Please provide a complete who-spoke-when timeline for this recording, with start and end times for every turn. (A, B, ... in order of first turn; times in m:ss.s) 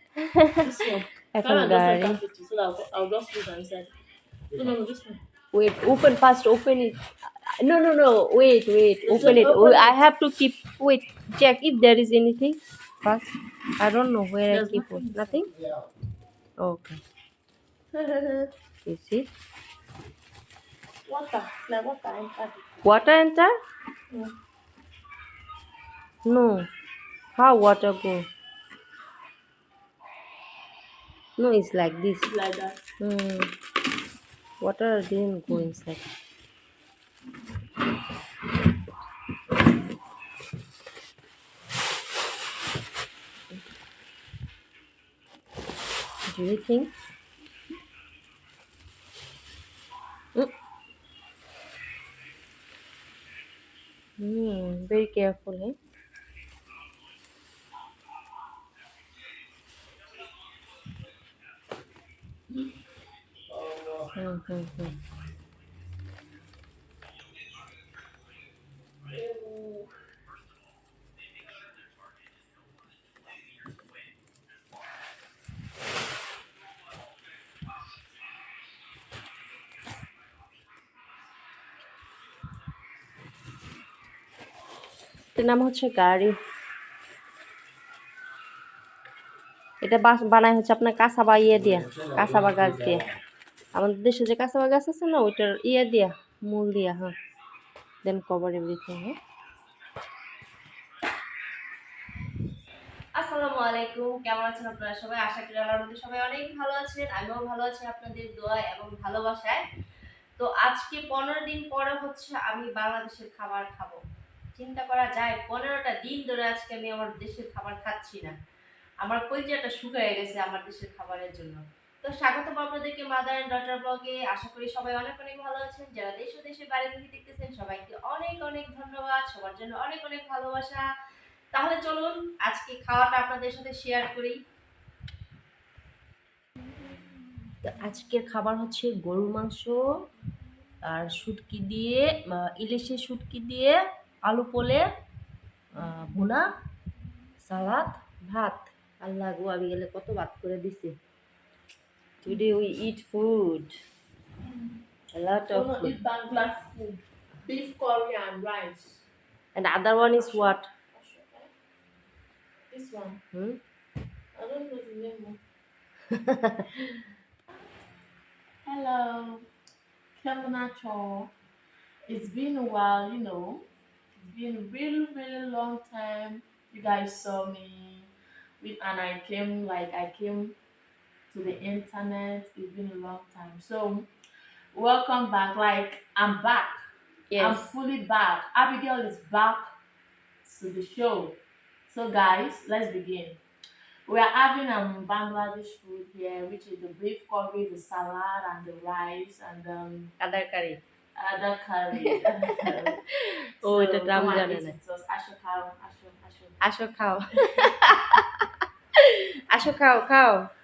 0:00.3-0:00.6 A
0:00.6-0:03.9 B
0:01.3-0:02.2 A
0:04.6-0:05.2 B
0:05.5-0:15.5 A
0:09.1-0:10.0 B
0:14.5-0:15.5 B
0:16.6-0:17.0 A
0:17.9-0:18.5 B
0:18.9-0:19.3 A
0:21.1-0:22.6 B
0:22.8-0:23.5 A
0:26.2-0:26.6 A
0:27.4-0:28.2 A
0:31.4-0:32.3 A
0:32.3-0:32.8 B
0:33.0-0:33.5 A
0:34.6-0:36.0 A
0:46.3-0:46.9 A
0:54.2-0:55.8 A
1:04.2-1:05.0 A
1:09.1-1:09.9 B
1:25.4-1:26.4 A
1:29.8-1:33.0 A
1:33.8-1:37.2 A
1:38.0-1:39.2 A
1:43.2-1:49.6 A
1:50.4-1:54.0 A
1:54.6-1:58.3 A
1:59.0-2:10.8 A
2:11.5-2:14.4 A
2:17.6-2:19.8 A
2:20.8-2:24.8 A
2:25.8-2:26.5 A
2:27.4-2:30.9 A
2:32.2-2:33.7 A
2:35.1-2:36.0 A
2:35.5-2:39.0 B
2:39.6-2:40.7 A
2:40.1-2:41.5 B
2:42.7-2:43.2 B
2:43.3-2:43.6 A
2:44.4-2:45.4 B
2:46.1-2:46.7 A
2:48.7-2:49.5 B
2:50.2-2:51.3 B
2:52.1-2:53.6 B
2:54.2-3:00.6 B
3:01.3-3:04.1 B
3:04.7-3:06.8 B
3:07.3-3:07.7 A
3:07.4-3:09.7 B
3:10.4-3:11.4 B
3:11.9-3:13.4 B
3:14.1-3:20.1 B
3:20.2-3:20.8 A
3:21.2-3:23.0 B
3:22.0-3:22.7 A
3:23.6-3:24.8 A
3:23.6-3:26.6 B
3:26.6-3:28.5 A
3:29.0-3:30.4 A